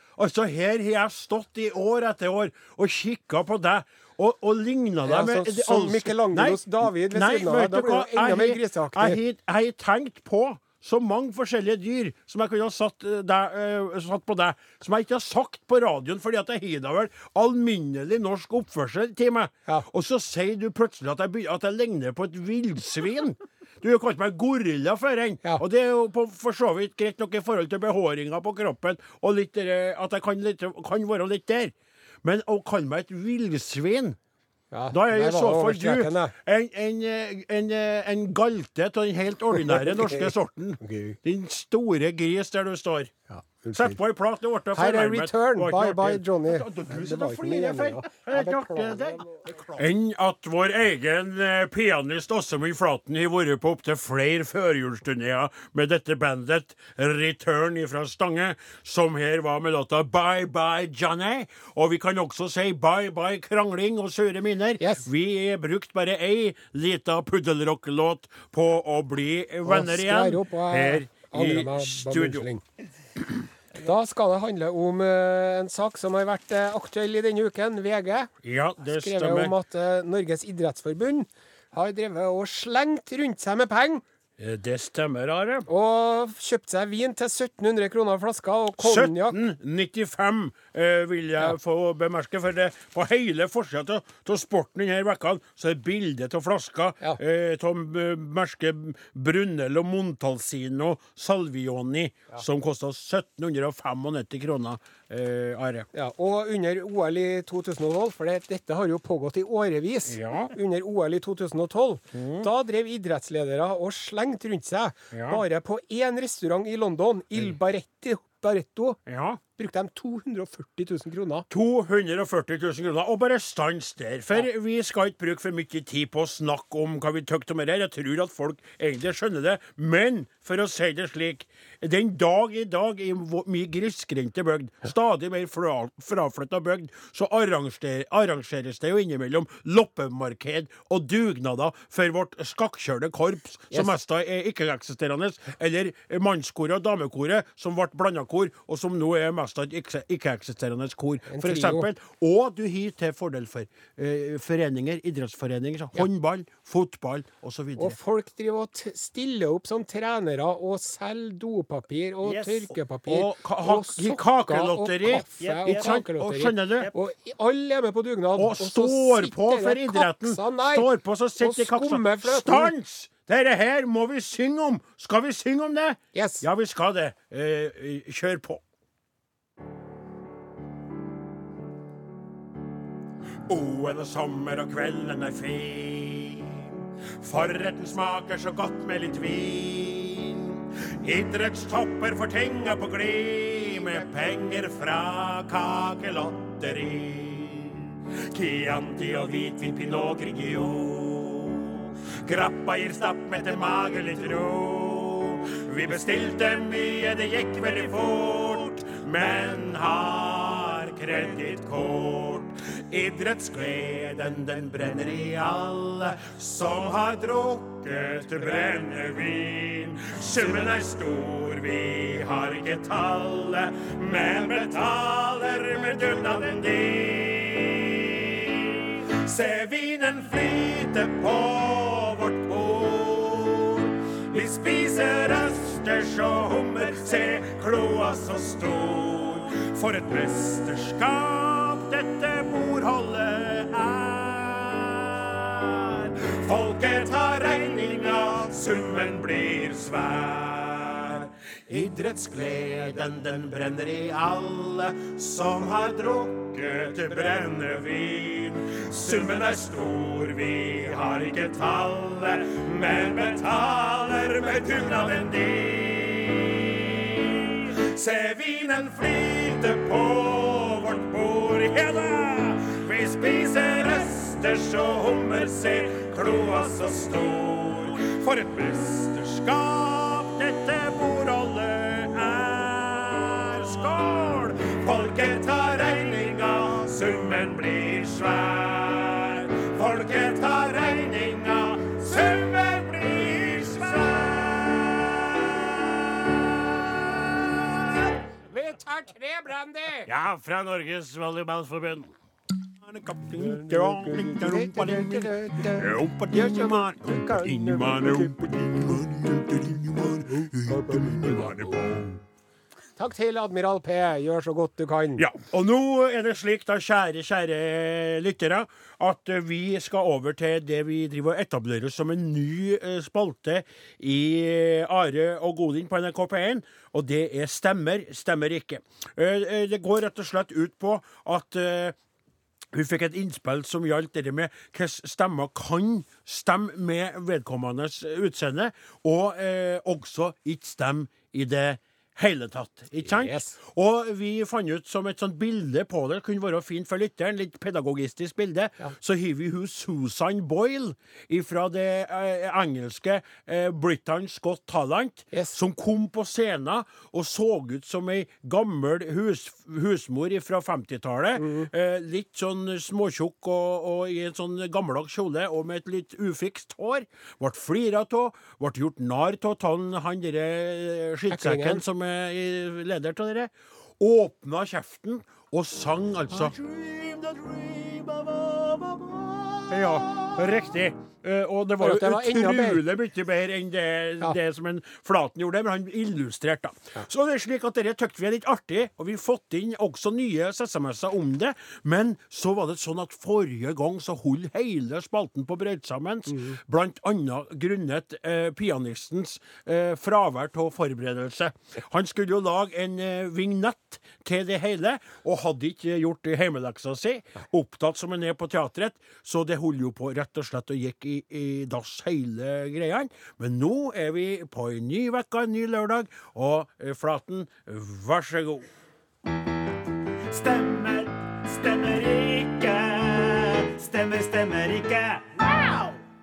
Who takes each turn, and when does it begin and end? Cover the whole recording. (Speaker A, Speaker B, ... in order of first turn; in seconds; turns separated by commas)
Speaker A: 0.2-34.2, Speaker B: 5.0-9.2, Speaker B: 34.7-36.3, Speaker A: 34.9-43.1, Speaker B: 39.5-41.2, Speaker B: 43.3-44.0, Speaker A: 43.7-72.5, Speaker B: 44.7-49.8, Speaker B: 64.8-65.0, Speaker B: 69.7-72.6, Speaker B: 73.8-78.3, Speaker A: 78.4-79.5, Speaker B: 78.9-84.0, Speaker A: 84.4-85.7, Speaker B: 85.7-89.4, Speaker A: 88.8-105.9, Speaker B: 105.9-119.0, Speaker A: 110.1-110.5, Speaker A: 112.1-112.5, Speaker A: 115.1-115.4, Speaker A: 119.1-119.4, Speaker B: 119.5-121.5, Speaker A: 121.5-158.0, Speaker B: 151.3-151.9, Speaker B: 157.8-170.9, Speaker A: 162.2-166.9, Speaker C: 165.4-166.0, Speaker A: 168.3-178.6, Speaker B: 171.4-172.7, Speaker B: 176.1-176.4, Speaker A: 183.4-298.2, Speaker B: 298.4-300.1, Speaker A: 300.1-302.1, Speaker A: 302.7-312.2, Speaker B: 303.3-308.5, Speaker B: 310.4-311.7, Speaker B: 313.0-315.2, Speaker A: 315.2-331.9, Speaker A: 332.7-418.7, Speaker B: 343.0-343.6, Speaker B: 355.3-355.6, Speaker B: 361.4-361.7, Speaker B: 371.3-371.8, Speaker B: 381.8-382.8, Speaker B: 396.3-396.6, Speaker C: 420.3-426.0